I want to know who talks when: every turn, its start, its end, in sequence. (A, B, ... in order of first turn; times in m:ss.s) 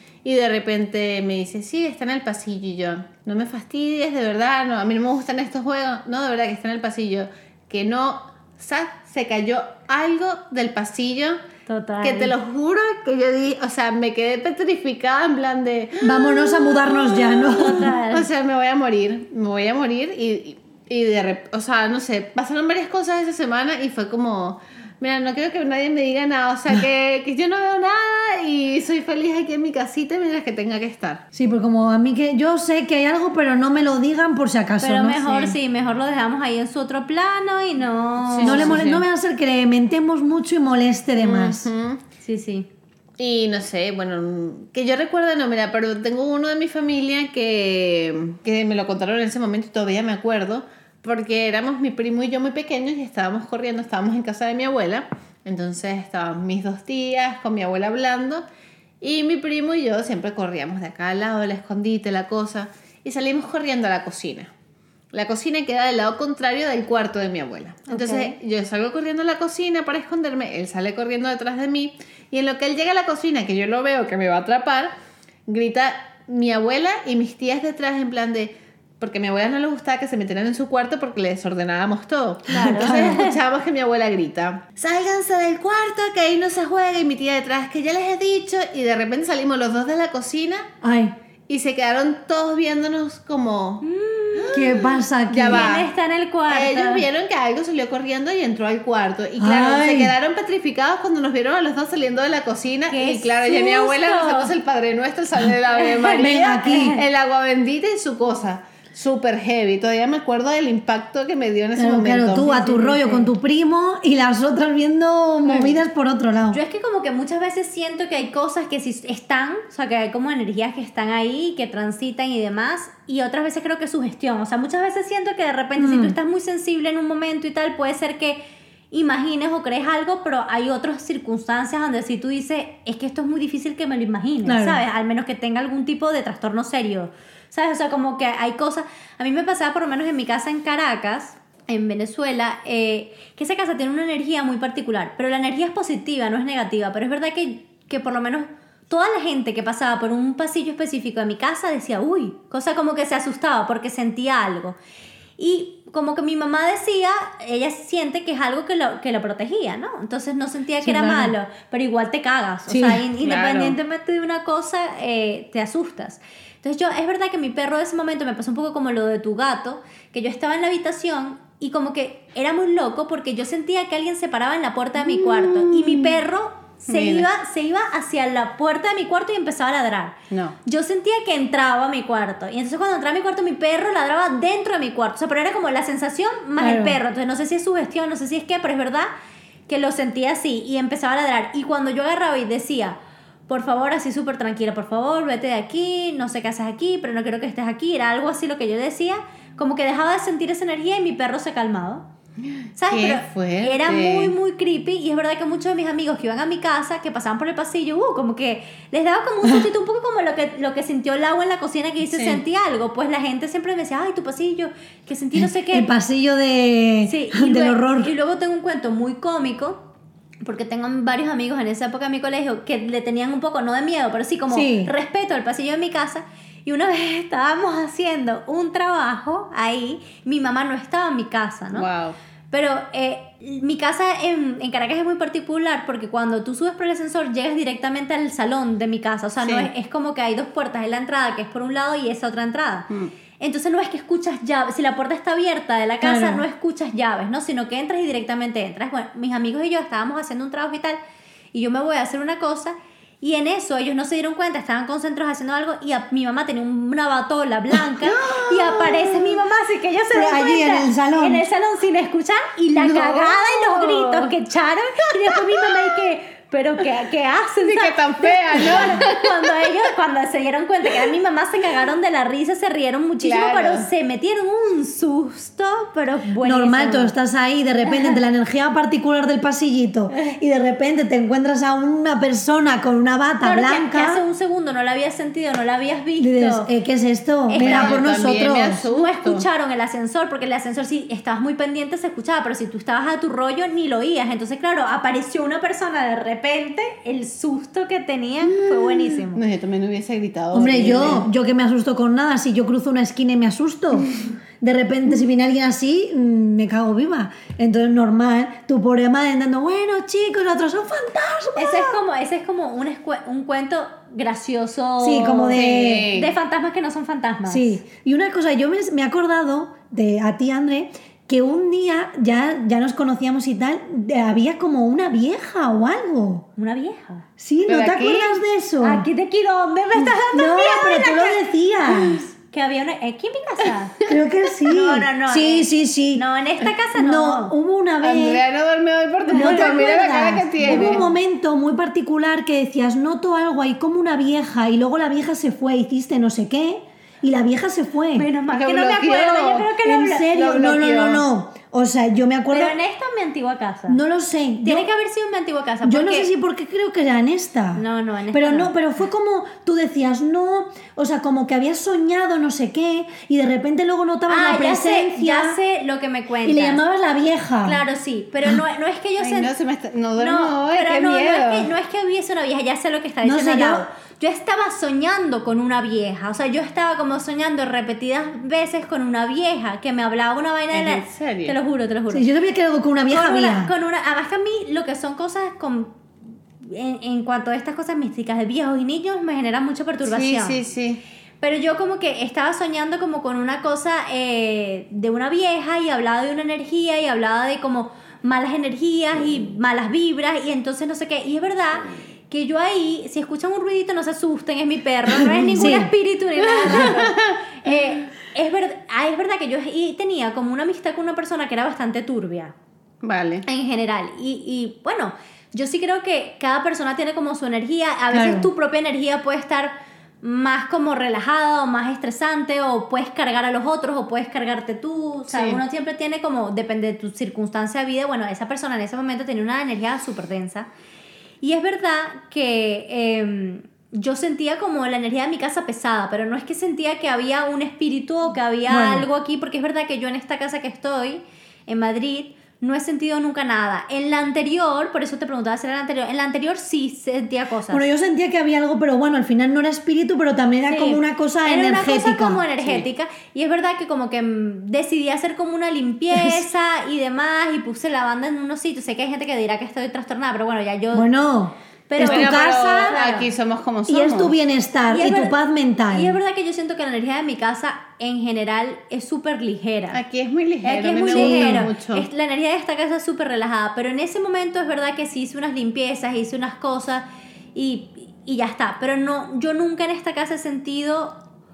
0:00.2-0:11.4 A
0:11.7-0:12.3 B
0:12.0-0:31.2 A
0:16.0-0:17.9 C
0:17.5-0:18.3 B
0:31.3-0:35.2 C
0:34.8-0:38.8 B
0:35.3-0:35.6 A
0:38.3-0:39.0 A
0:38.4-0:41.7 C
0:41.2-0:42.0 A
0:42.2-0:42.7 B
0:43.2-0:58.4 A
0:59.0-1:04.5 A
1:05.1-1:14.9 A
1:07.9-1:08.4 B
1:15.5-1:30.7 A
1:22.5-1:23.4 B
1:22.6-1:23.2 C
1:30.8-1:31.1 C
1:31.5-1:35.9 A
1:33.8-1:34.6 B
1:34.5-1:35.7 C
1:35.5-1:37.0 B
1:36.5-1:52.6 A
1:39.4-1:40.1 C
1:42.9-1:44.5 B
1:45.8-1:46.9 B
1:46.2-1:47.0 C
1:51.8-1:56.6 C
1:52.4-1:53.3 B
1:55.5-1:55.8 A
1:56.5-2:08.4 B
2:05.8-2:06.2 C
2:08.9-2:34.8 B
2:14.4-2:14.8 C
2:35.4-3:09.1 B
2:40.8-2:41.4 C
2:42.7-2:43.0 C
2:43.2-2:43.8 A
2:55.0-2:56.2 A
2:56.9-2:57.3 A
3:00.3-3:00.6 A
3:06.6-3:07.0 C
3:09.7-3:13.0 B
3:13.5-3:22.0 B
3:22.8-3:35.9 B
3:22.9-3:24.4 A
3:32.1-3:32.4 A
3:35.4-3:38.1 C
3:37.1-3:39.8 B
3:40.4-3:51.9 B
3:44.5-3:44.9 C
3:51.7-3:52.2 A
3:52.5-4:11.0 B
3:59.4-3:59.7 A
4:06.0-4:06.4 C
4:11.5-4:37.1 B
4:18.0-4:19.4 A
4:20.1-4:21.4 C
4:22.8-4:24.3 A
4:27.6-4:29.4 A
4:33.2-4:33.9 A
4:36.4-4:44.2 C
4:43.4-4:46.7 B
4:46.2-4:48.8 C
4:47.5-4:48.0 B
4:47.6-4:49.5 A
4:48.9-4:59.4 B
4:58.4-5:01.3 A
5:00.5-5:12.0 C
5:11.6-5:17.7 B
5:15.0-5:16.1 C
5:15.5-5:16.3 A
5:17.5-5:26.5 C
5:26.6-5:27.2 B
5:27.4-5:29.1 C
5:27.7-5:28.4 A
5:28.8-5:31.4 B
5:30.0-5:32.2 C
5:32.4-5:34.0 B
5:34.1-5:36.2 C
5:34.7-5:37.5 B
5:37.0-5:38.4 C
5:38.0-5:41.1 A
5:39.3-5:48.3 C
5:40.6-5:41.1 B
5:48.2-5:50.3 B
5:48.5-5:49.7 A
5:49.8-5:52.8 C
5:50.3-5:51.2 A
5:52.5-5:54.0 B
5:53.9-5:54.9 C
5:54.6-5:56.3 B
5:55.8-6:05.6 C
5:57.8-5:58.7 B
6:04.3-6:06.8 B
6:06.4-6:07.8 C
6:07.6-6:09.5 B
6:09.2-6:11.7 A
6:10.2-6:22.3 B
6:13.2-6:13.9 C
6:20.7-6:21.6 A
6:22.1-6:23.7 C
6:23.1-6:26.0 B
6:26.6-6:30.6 B
6:30.0-6:31.0 A
6:31.4-6:52.5 B
6:45.2-6:45.9 C
6:46.5-6:47.4 A
6:46.6-6:47.0 C
6:53.0-6:53.4 A
6:53.5-7:10.7 B
6:58.1-6:58.5 C
7:05.3-7:05.6 A
7:11.4-7:27.8 B
7:18.7-7:19.1 C
7:27.7-7:32.4 C
7:30.7-7:41.1 B
7:32.6-7:32.9 A
7:36.1-7:36.5 C
7:40.9-7:43.0 C
7:41.9-7:43.3 B
7:42.0-7:44.4 A
7:43.9-7:46.2 C
7:44.9-7:45.3 B
7:45.9-7:50.0 B
7:49.9-7:52.1 A
7:50.6-8:01.2 B
7:51.1-7:51.7 C